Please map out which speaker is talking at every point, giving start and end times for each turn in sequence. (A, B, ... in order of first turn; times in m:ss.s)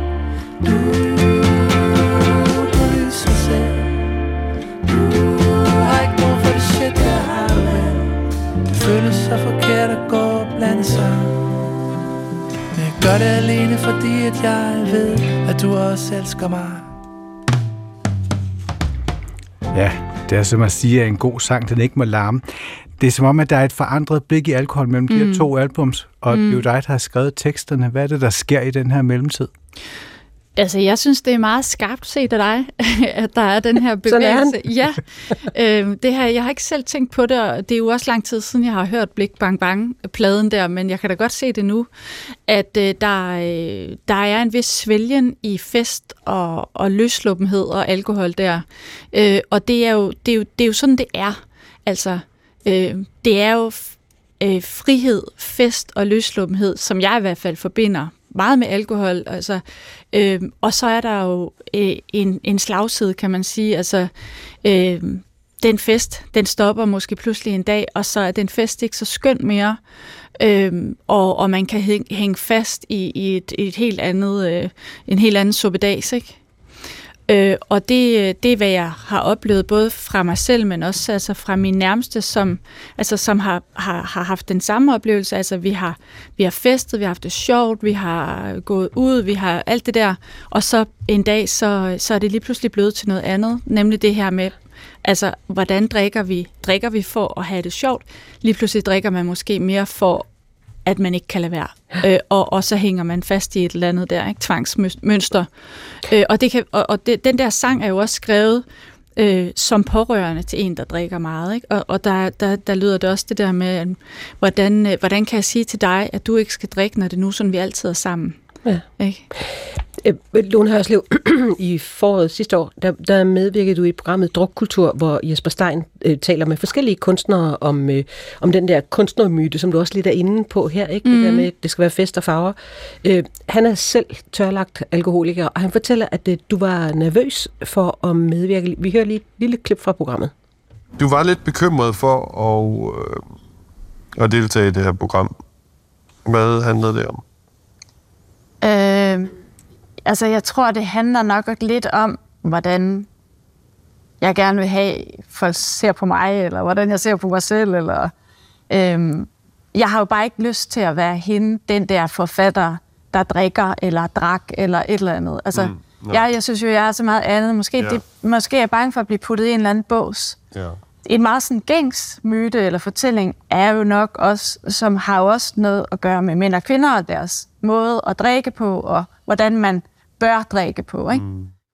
0:00.6-0:04.1 A
0:04.8-0:08.2 A
0:08.8-0:11.5 A
0:12.7-0:16.9 A
0:19.7-0:22.4 B
0:23.0-0:29.5 B
0:25.1-0:25.5 C
0:26.3-0:26.6 C
0:30.6-0:41.9 C
0:34.1-0:34.6 D
0:42.5-1:04.1 C
1:04.6-1:09.8 C
1:10.4-1:16.4 C
1:17.3-1:40.3 C
1:40.8-1:45.5 C
1:46.0-1:48.6 C
1:49.2-1:58.4 C
1:58.6-2:20.3 D
2:11.0-2:11.5 C
2:21.0-2:23.2 E
2:24.2-2:25.4 E
2:26.2-2:27.2 E
2:28.6-2:29.3 F
2:30.0-2:33.1 F
2:34.2-2:38.1 F
2:38.7-2:50.4 F
2:45.5-2:46.3 E
2:47.8-2:48.0 E
2:50.5-2:50.8 E
2:51.0-3:01.2 F
3:01.1-3:01.5 E